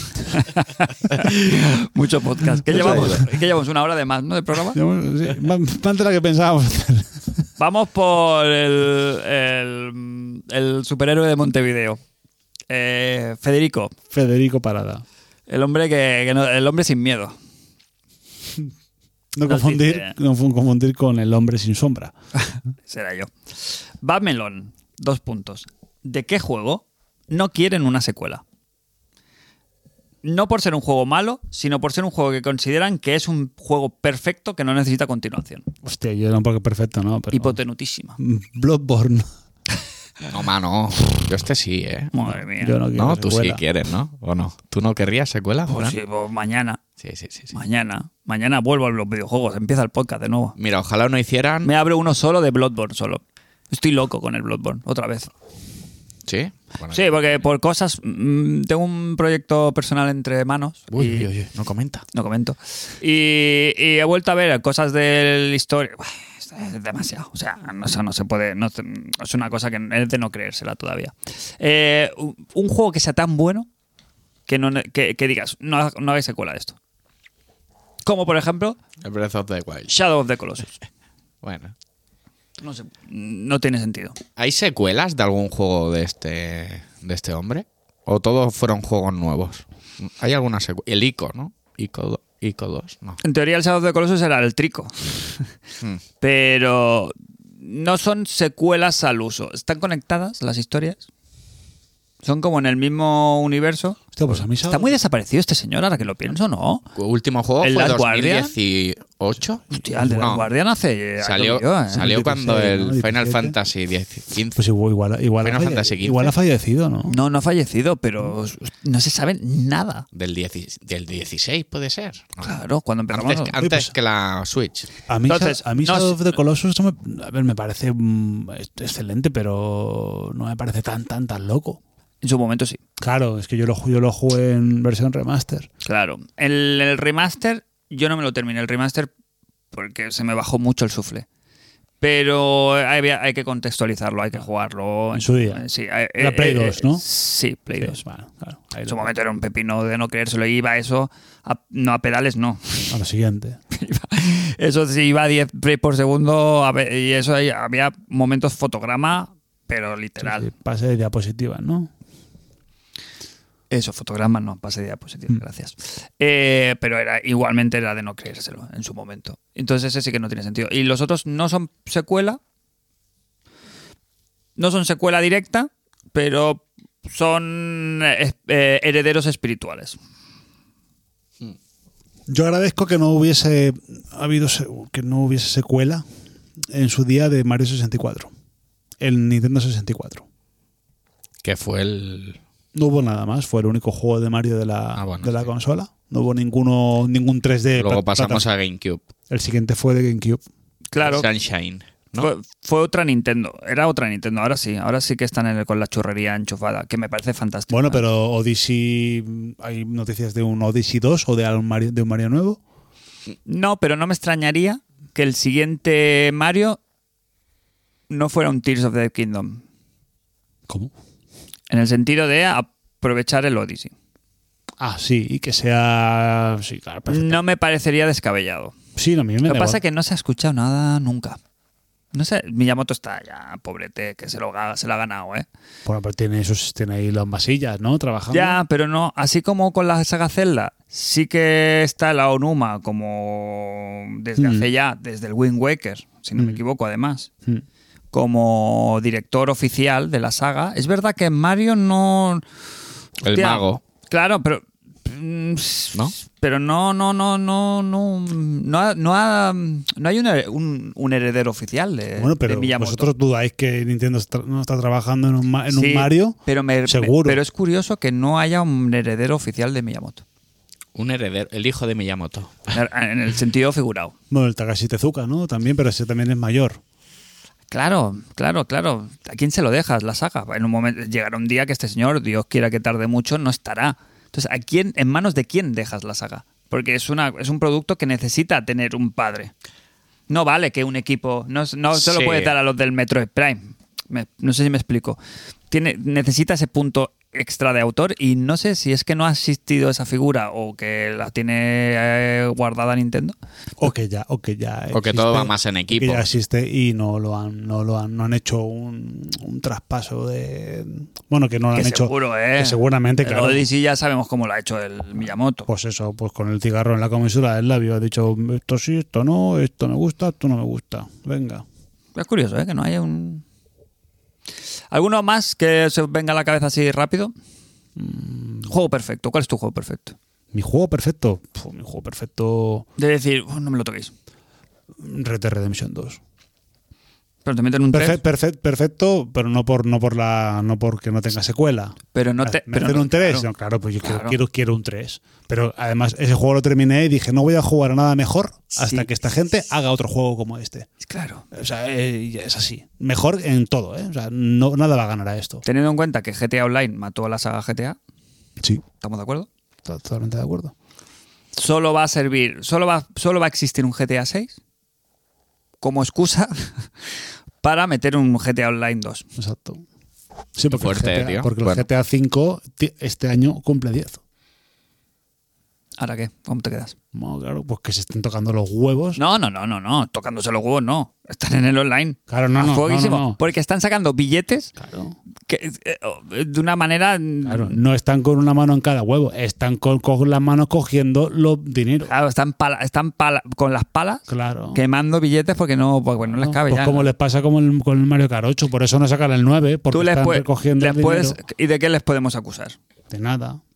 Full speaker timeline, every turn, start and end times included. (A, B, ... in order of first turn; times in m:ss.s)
0:00.2-0:04.8 A
0:02.7-0:03.2 B
0:02.7-0:03.2 C
0:04.7-0:07.4 B
0:07.6-0:12.0 A
0:12.7-0:13.9 A
0:14.1-0:15.0 B
0:15.5-0:17.3 A
0:19.3-0:22.1 B
0:19.5-0:20.1 A
0:22.5-0:28.4 A
0:30.2-0:35.7 A
0:35.8-0:37.6 B
0:37.3-0:38.2 A
0:38.2-0:39.2 B
0:40.3-0:42.1 C
0:42.1-0:42.8 A
0:42.6-0:43.6 B
0:42.9-0:46.0 C
0:45.7-0:46.8 A
0:47.0-0:47.5 C
0:47.5-0:50.6 A
0:50.6-0:51.7 C
0:51.6-0:55.3 A
0:56.3-0:57.2 C
0:56.9-1:01.3 A
1:00.9-1:02.0 C
1:02.1-1:13.7 A
1:14.5-1:16.8 A
1:18.0-1:18.8 A
1:19.0-1:19.9 C
1:19.9-1:20.7 A
1:21.4-1:21.7 C
1:22.6-1:24.2 A
1:24.4-1:33.2 C
1:33.2-1:35.5 A
1:36.2-1:41.0 A
1:42.2-1:44.0 A
1:44.1-1:45.0 B
1:44.6-1:46.8 A
1:46.9-1:50.5 C
1:47.6-1:48.5 A
1:49.7-1:52.1 A
1:49.9-1:50.4 B
1:51.2-1:54.6 C
1:51.9-1:53.6 B
1:54.6-1:57.2 B
1:55.4-1:56.3 C
1:57.1-2:00.0 A
2:00.1-2:02.5 C
2:02.4-2:03.6 A
2:03.1-2:04.9 C
2:03.6-2:03.9 B
2:05.1-2:11.8 B
2:05.3-2:06.3 A
2:12.2-2:12.8 A
2:13.0-2:15.7 B
2:15.8-2:19.1 A
2:19.7-2:21.2 A
2:22.0-2:28.0 A
2:25.1-2:25.6 B
2:26.2-2:27.0 B
2:27.7-2:29.1 B
2:28.8-2:32.9 A
2:32.9-2:33.6 B
2:33.7-2:40.5 A
2:40.2-2:41.9 B
2:43.7-2:52.4 A
2:54.6-3:00.0 A
3:02.3-3:06.0 B
3:06.7-3:08.3 B
3:09.0-3:10.2 B
3:11.4-3:12.4 C
3:12.7-3:18.4 B
3:15.0-3:15.4 C
3:17.8-3:19.0 C
3:19.3-3:20.4 B
3:20.9-3:21.3 A
3:21.0-3:22.3 C
3:22.2-3:28.0 A
3:27.7-3:32.6 B
3:33.4-3:36.8 A
3:38.1-3:39.6 A
3:41.7-3:43.9 A
3:44.8-3:47.4 B
3:47.1-3:48.7 A
3:49.0-3:49.8 B
3:49.4-3:51.4 A
3:52.1-3:55.4 A
3:55.8-3:58.6 B
3:58.3-4:07.3 A
4:04.4-4:04.7 B
4:08.1-4:12.4 A
4:13.2-4:13.8 C
4:13.2-4:23.1 A
4:22.2-4:27.4 B
4:25.7-4:30.2 A
4:30.9-4:32.7 C
4:32.7-4:34.1 A
4:34.3-4:36.8 B
4:37.7-4:49.5 A
4:50.3-4:55.2 A
4:51.9-4:52.5 C
4:55.7-5:03.3 A
5:03.8-5:13.6 B
5:04.9-5:06.2 C
5:11.7-5:15.7 A
5:15.7-5:21.6 B
5:22.2-5:23.4 A
5:24.9-5:27.3 A
5:28.0-5:28.7 B
5:28.7-5:30.2 A
5:30.5-5:32.8 B
5:33.0-5:34.1 A
5:35.0-5:36.2 B
5:37.4-5:38.2 A
5:37.9-5:50.9 B
5:42.1-5:43.5 A
5:44.0-5:44.4 A
5:48.8-5:49.1 A
5:51.0-5:51.4 A
5:51.5-5:55.6 B
5:55.6-5:58.0 A
5:59.0-5:59.5 A
5:59.8-6:00.7 B
6:01.5-6:04.6 A
6:05.8-6:06.9 A
6:07.6-6:09.2 A
6:09.4-6:09.8 B
6:10.6-6:14.2 B
6:10.7-6:11.8 C
6:16.0-6:16.9 A
6:17.1-6:19.2 B
6:19.2-6:24.7 A
6:22.3-6:23.4 B
6:24.8-6:25.1 B
6:25.5-6:27.8 A
6:27.4-6:32.1 B
6:32.0-6:37.1 A
6:34.3-6:34.8 B
6:36.3-6:41.4 B
6:39.9-6:42.8 A
6:43.1-6:43.6 B